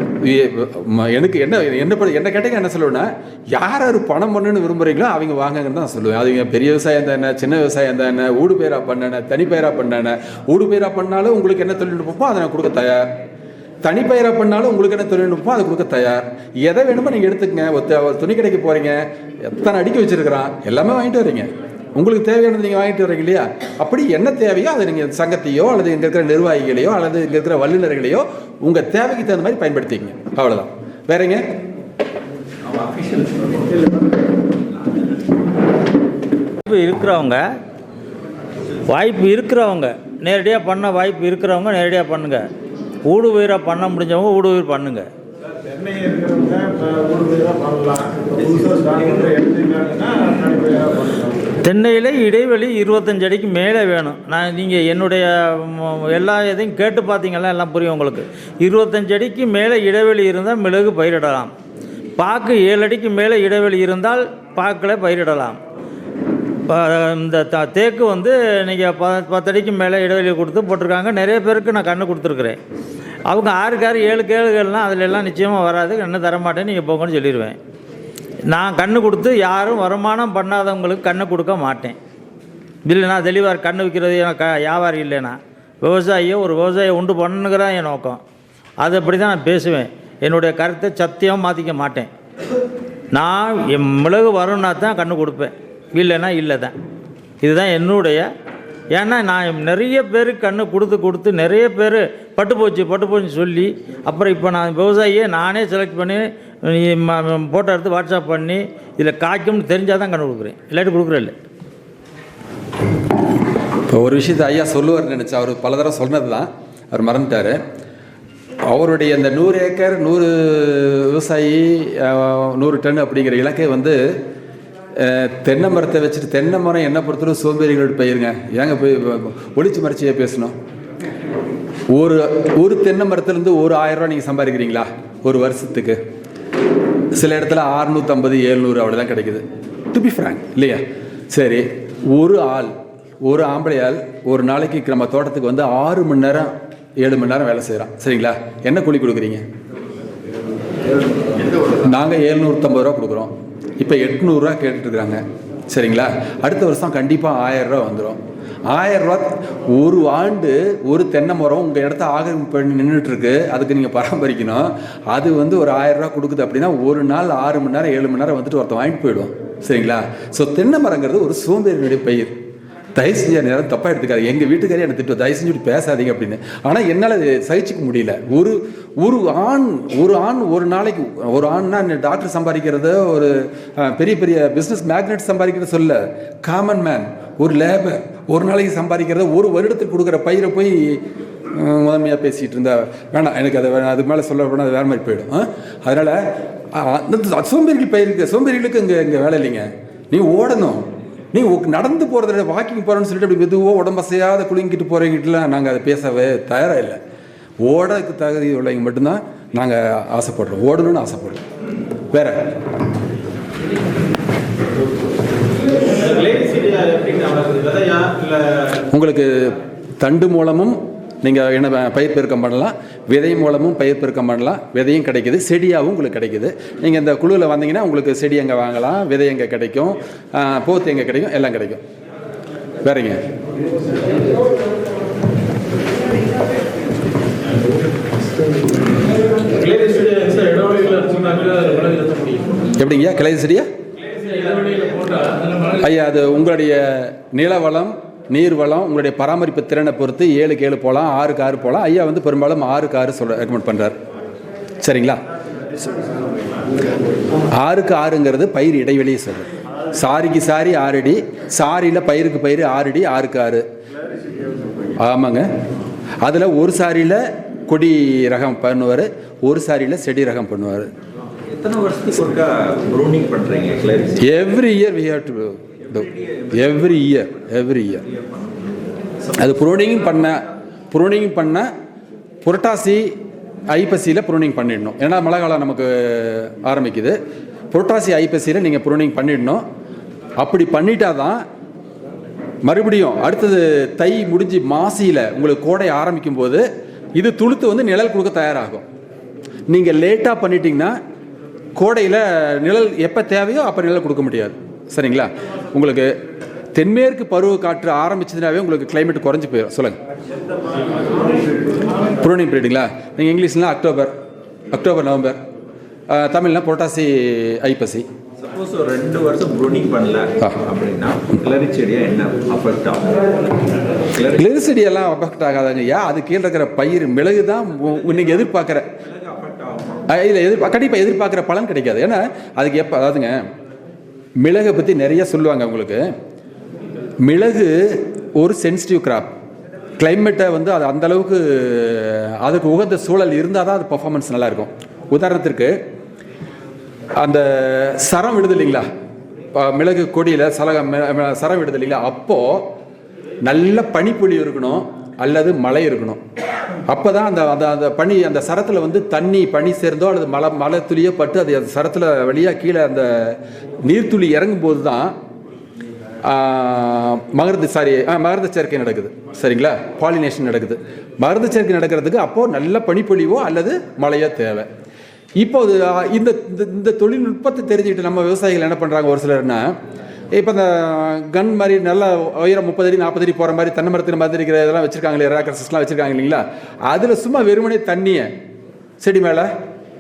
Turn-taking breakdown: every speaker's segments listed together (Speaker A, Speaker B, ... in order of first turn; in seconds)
Speaker A: 0.2-13.1, 13.8-31.4, 113.9-117.6, 118.7-124.2, 125.0-130.6, 131.9-136.0, 137.2-142.7, 143.2-149.4, 151.7-172.3, 172.9-191.0, 191.5-207.0, 207.6-211.4, 212.1-212.4, 218.7-231.8, 232.8-233.2, 240.2-241.9, 242.8-243.7, 244.6-254.0, 254.8-255.2, 257.5-263.6, 265.0-265.5, 266.2-270.9, 274.2-278.1, 279.4-281.7, 282.4-283.1, 283.7-287.2, 287.7-289.6, 290.4-291.4, 292.7-296.6, 297.2-298.9, 299.7-300.9, 301.8-306.1, 306.8-310.0, 312.2-314.1, 314.7-315.4, 316.1-318.1, 324.4-328.9, 330.1-333.4, 334.4-336.0, 337.2-339.3, 340.0-345.8, 347.2-348.9, 349.6-352.7, 353.5-356.2, 356.9-365.1, 366.2-374.7, 375.4-379.8, 380.3-388.3, 389.0-389.5
Speaker B: 32.6-33.8, 271.5-274.2, 276.2-276.5, 318.4-324.5, 329.1-330.0
Speaker C: 36.7-37.4, 38.9-42.4, 43.1-45.1, 51.6-61.5, 62.2-65.6, 66.7-72.6, 73.3-77.6, 78.5-82.0, 82.9-88.2, 88.8-92.1, 93.1-96.7, 97.4-98.3, 98.9-111.3
Speaker D: 45.7-51.4, 215.9-218.6, 239.7-240.1